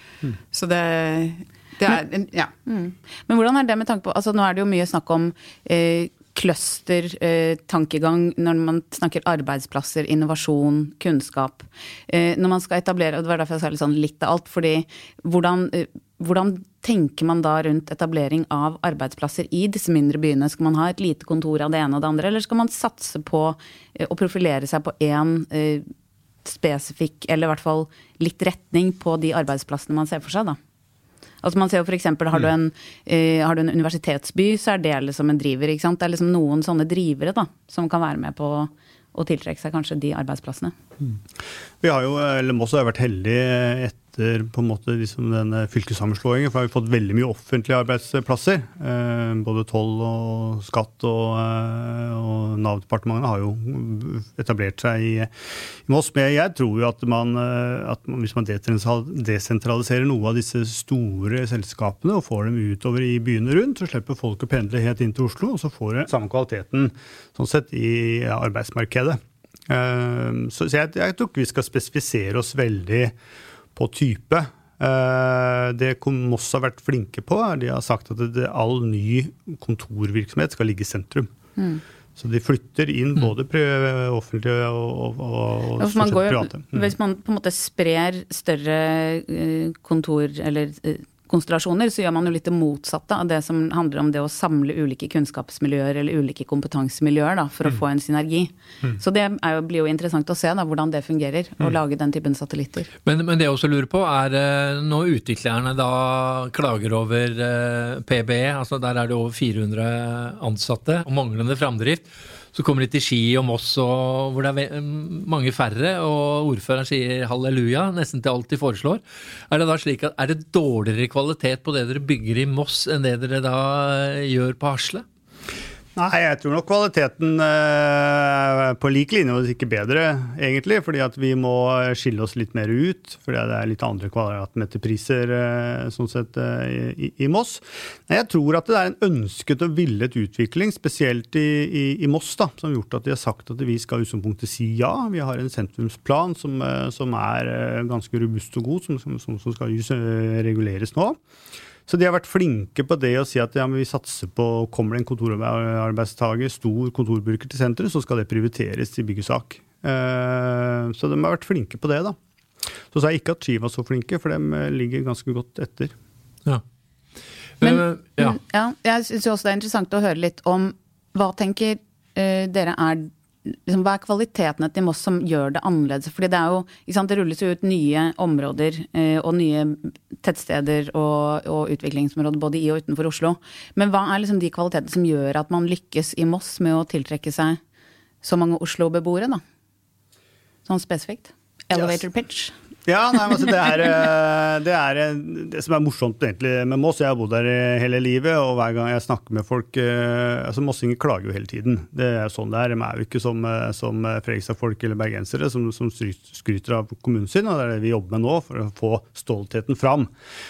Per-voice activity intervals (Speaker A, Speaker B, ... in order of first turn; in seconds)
Speaker A: 0.5-2.5
Speaker B: 2.7-25.8, 26.4-30.6, 31.4-40.7, 81.6-81.8, 85.8-102.9, 167.6-187.6, 188.2-189.4, 190.7-192.5
Speaker C: 41.8-55.3, 55.8-73.1, 73.7-81.3, 82.2-86.9, 126.0-151.2, 151.9-162.2, 162.9-165.9, 192.9-210.1
Speaker D: 103.0-125.0, 167.6-168.4